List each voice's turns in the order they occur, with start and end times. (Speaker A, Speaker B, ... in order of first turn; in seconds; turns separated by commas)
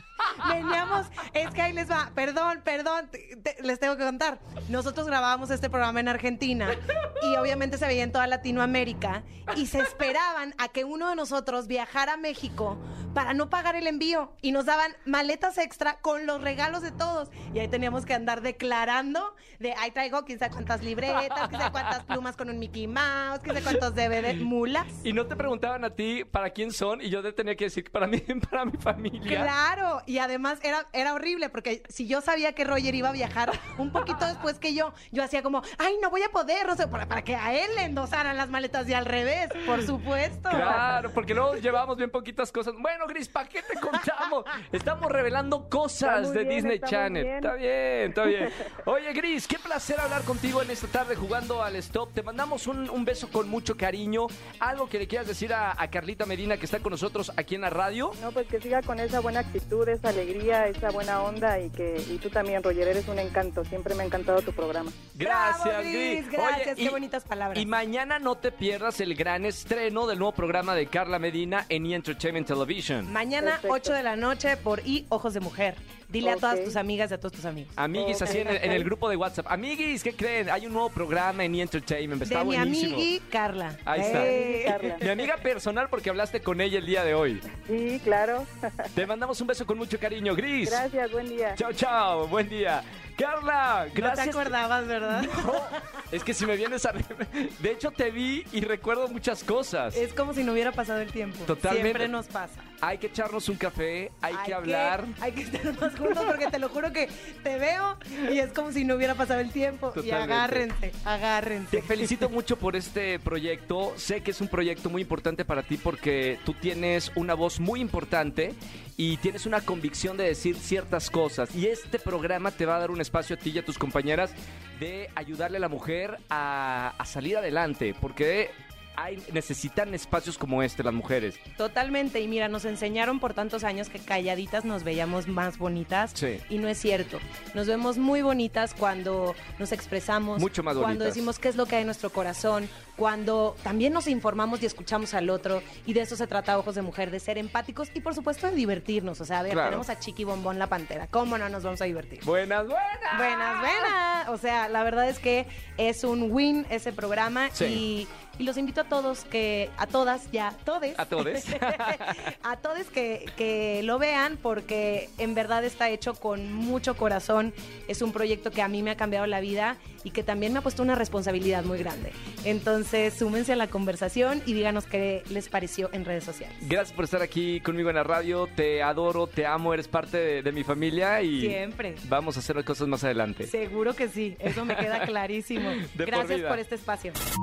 Speaker A: 0.2-0.8, Speaker B: 0.4-25.0, Speaker A: 7.0-7.5, Speaker A: 21.4-21.9, Speaker A: 25.0-29.5, Speaker B: 29.3-40.9, Speaker A: 40.5-58.2, Speaker C: 46.0-47.5, Speaker C: 58.2-65.0, Speaker A: 65.2-67.0, Speaker B: 65.2-67.7, Speaker A: 67.5-73.1, Speaker B: 73.1-77.8, Speaker C: 73.4-74.0, Speaker C: 76.2-76.8, Speaker A: 77.8-83.1, Speaker C: 77.9-78.9, Speaker B: 82.2-85.0, Speaker A: 83.8-84.4, Speaker C: 84.0-85.0, Speaker A: 85.0-87.5, Speaker C: 87.6-88.9, Speaker A: 88.9-90.8, Speaker C: 90.6-91.6, Speaker A: 91.6-94.5, Speaker B: 93.9-96.0, Speaker A: 95.1-100.0, Speaker B: 99.9-102.7, Speaker A: 101.5-102.1, Speaker A: 102.8-105.2, Speaker B: 104.3-112.3, Speaker A: 109.9-110.7, Speaker A: 111.7-131.4, Speaker B: 131.6-152.3, Speaker A: 136.2-136.4, Speaker A: 140.4-141.3, Speaker A: 149.5-149.8, Speaker A: 152.2-153.9, Speaker B: 153.1-176.7, Speaker A: 157.6-157.8, Speaker A: 161.0-162.3, Speaker A: 176.6-183.5, Speaker B: 181.4-182.0, Speaker B: 183.4-187.2, Speaker A: 184.5-185.0, Speaker A: 185.7-186.6